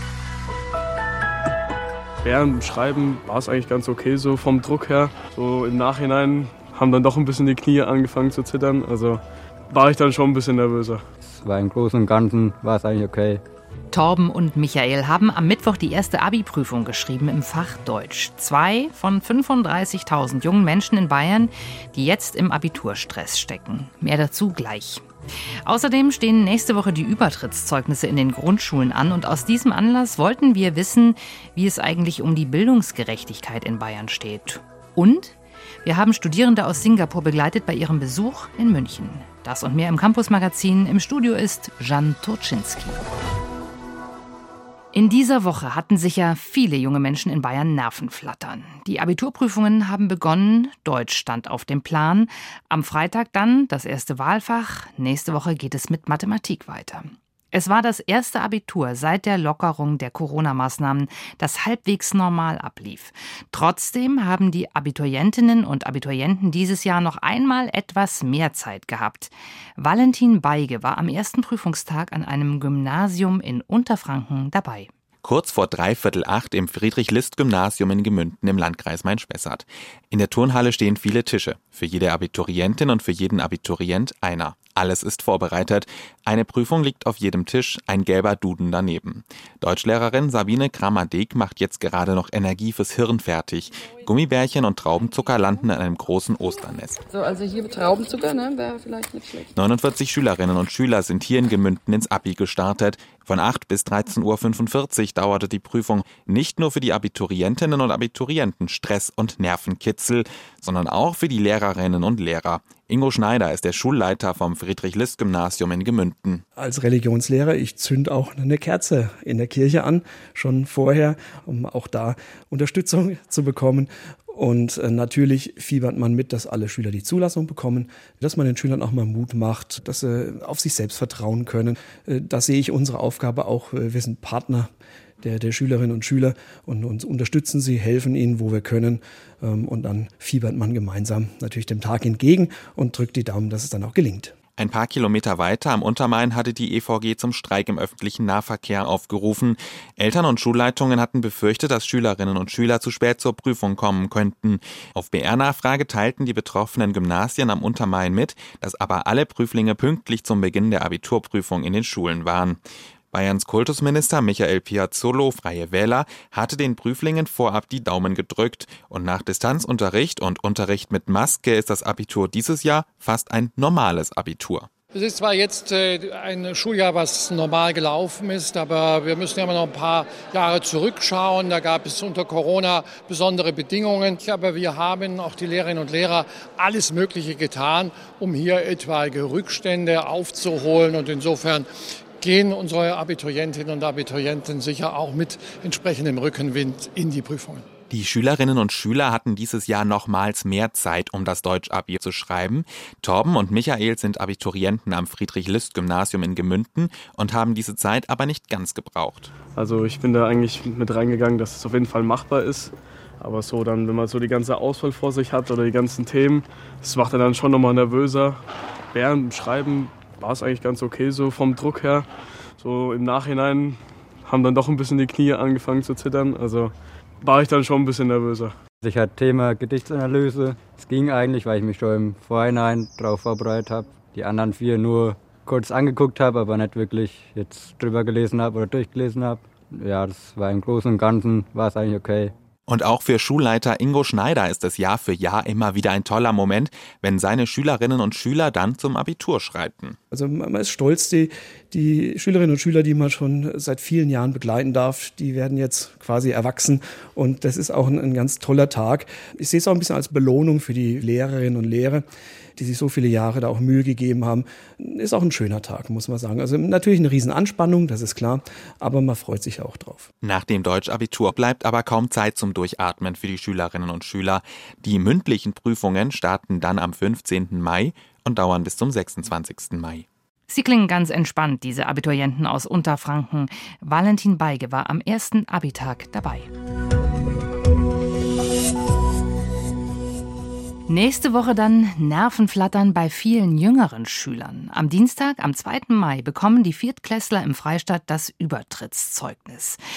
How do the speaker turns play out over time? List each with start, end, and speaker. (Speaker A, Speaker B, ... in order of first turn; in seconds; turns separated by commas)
Speaker A: 2.2-11.0, Speaker B: 11.2-13.4, Speaker C: 13.9-25.0, Speaker C: 25.6-43.0, Speaker C: 44.9-74.9, Speaker D: 75.2-97.0, Speaker E: 97.1-99.5, Speaker D: 99.5-116.4, Speaker F: 116.6-134.7, Speaker F: 135.2-144.3, Speaker D: 144.6-162.6, Speaker D: 163.1-174.7, Speaker G: 174.9-191.7, Speaker G: 192.2-197.6, Speaker D: 197.9-209.3, Speaker A: 209.5-218.4, Speaker A: 218.9-228.5, Speaker B: 228.8-242.3, Speaker D: 242.7-250.0, Speaker F: 250.1-262.0, Speaker F: 262.6-270.1, Speaker D: 270.2-280.0, Speaker C: 280.5-286.5, Speaker C: 290.9-299.8